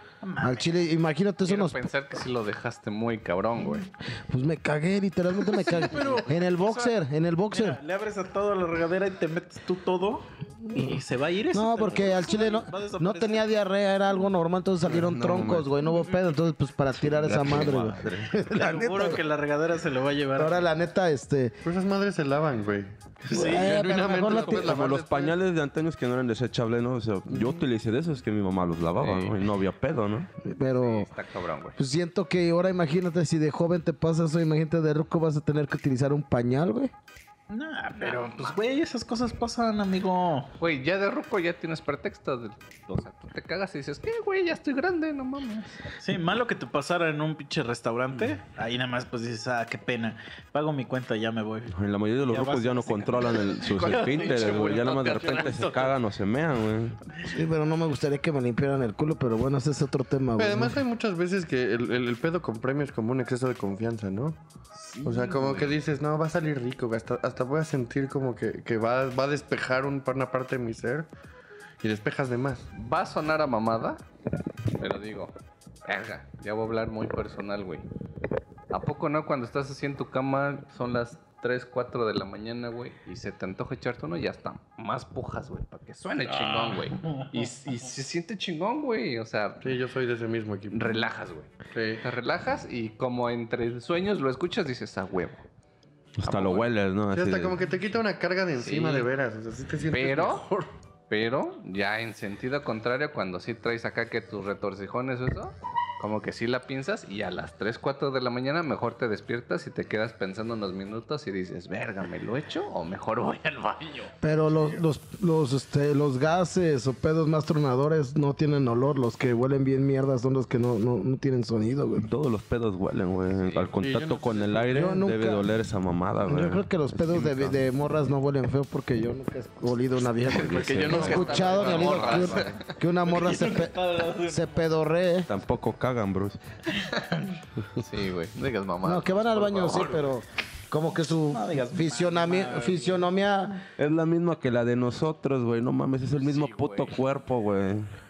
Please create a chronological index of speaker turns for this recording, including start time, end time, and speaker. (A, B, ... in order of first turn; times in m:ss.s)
0:00.2-0:00.8 A
0:00.4-0:01.9 B
0:01.4-0:03.9 C
0:04.3-0:07.8 B
0:05.4-0:13.6 A
0:10.7-0:11.0 B
0:11.5-0:19.2 B
0:14.9-0:15.7 D
0:16.9-0:18.4 D
0:18.4-0:20.7 A
0:20.4-0:21.5 B
0:21.6-0:25.1 E
0:23.3-0:23.8 A
0:23.3-0:24.8 B
0:24.1-0:25.3 C
0:24.5-0:30.3 D
0:27.3-0:27.6 E
0:29.0-0:29.4 C
0:30.4-0:31.1 B
0:30.7-0:31.8 C
0:31.8-0:36.9 B
0:37.5-0:40.5 A
0:38.0-0:38.5 C
0:40.6-0:45.8 C
0:46.0-0:51.7 A
0:51.7-0:57.0 D
0:52.3-0:55.0 A
0:53.6-0:55.9 C
0:57.2-1:00.8 B
1:00.4-1:04.4 E
1:04.7-1:05.7 C
1:05.0-1:11.1 E
1:11.8-1:12.7 E
1:12.7-1:14.0 C
1:14.8-1:15.3 C
1:15.8-1:17.8 C
1:18.7-1:29.7 C
1:26.5-1:27.4 A
1:29.6-1:31.0 E
1:30.7-1:35.4 C
1:31.7-1:32.0 E
1:36.2-1:37.6 D
1:36.2-1:36.7 C
1:37.1-1:40.7 E
1:38.6-1:39.1 C
1:39.9-1:40.5 C
1:41.1-1:54.1 C
1:54.2-2:02.1 B
2:02.0-2:07.6 D
2:03.8-2:04.9 E
2:04.7-2:05.5 B
2:06.2-2:15.3 B
2:10.2-2:12.7 C
2:10.3-2:12.0 D
2:10.6-2:12.6 E
2:13.1-2:14.7 A
2:15.3-2:16.4 D
2:16.8-2:17.2 A
2:17.7-2:20.1 C
2:18.8-2:23.6 B
2:21.2-2:23.2 A
2:23.8-2:27.9 D
2:26.2-2:26.9 C